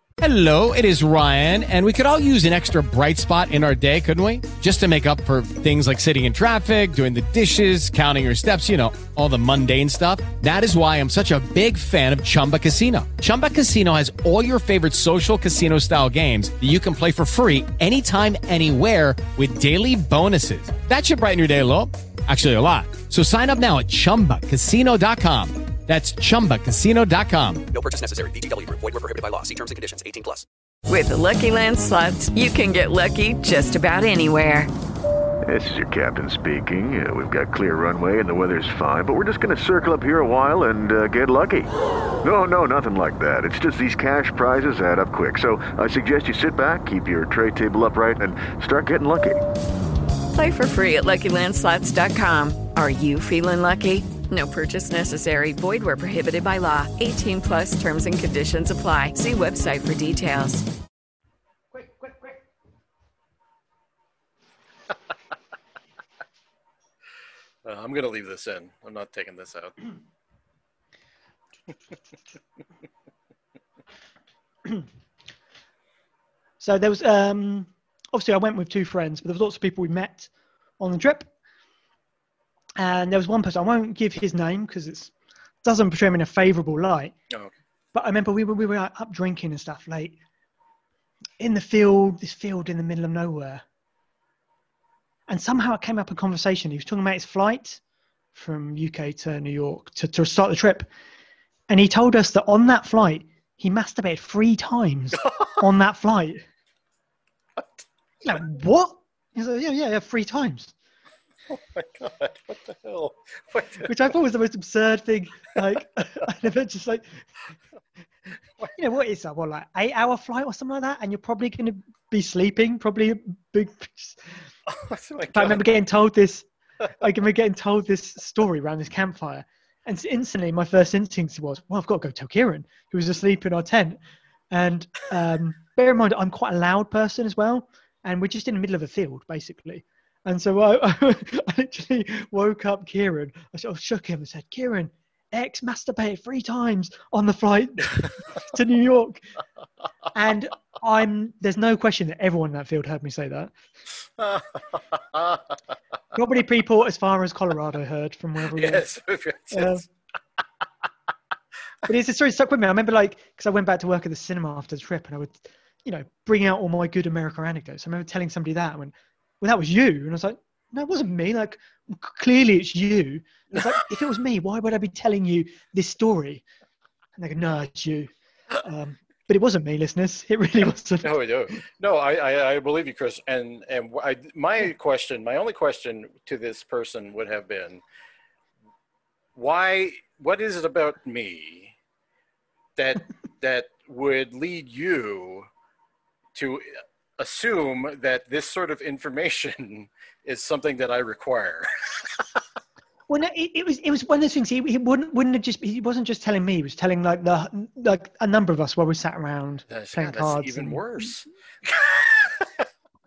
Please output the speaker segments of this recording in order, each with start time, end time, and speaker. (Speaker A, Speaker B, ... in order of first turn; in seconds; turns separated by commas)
Speaker A: 0.2-27.6, Speaker B: 27.7-30.4, Speaker C: 30.9-34.7, Speaker D: 35.4-49.4, Speaker C: 50.3-60.7, Speaker E: 61.7-62.4, Speaker F: 67.6-69.8, Speaker E: 76.6-81.3, Speaker E: 82.8-87.1, Speaker F: 87.3-87.5, Speaker E: 87.9-90.2, Speaker E: 91.4-93.6, Speaker E: 95.3-97.8, Speaker E: 98.3-100.9, Speaker E: 101.7-106.4, Speaker F: 107.6-107.8, Speaker E: 108.2-110.7, Speaker F: 111.5-113.9, Speaker E: 113.8-117.2, Speaker E: 118.7-124.2, Speaker F: 124.7-125.6, Speaker E: 125.3-126.5, Speaker E: 127.0-134.0, Speaker E: 134.5-149.2, Speaker E: 150.1-153.5, Speaker F: 154.2-155.6, Speaker E: 156.1-158.8, Speaker F: 158.5-159.8, Speaker E: 159.5-159.8, Speaker E: 161.9-176.4, Speaker F: 173.5-173.8, Speaker E: 177.2-181.2, Speaker F: 181.0-187.8, Speaker F: 189.3-191.7, Speaker F: 192.8-195.5, Speaker F: 196.3-202.3, Speaker E: 203.1-211.2, Speaker F: 209.7-212.7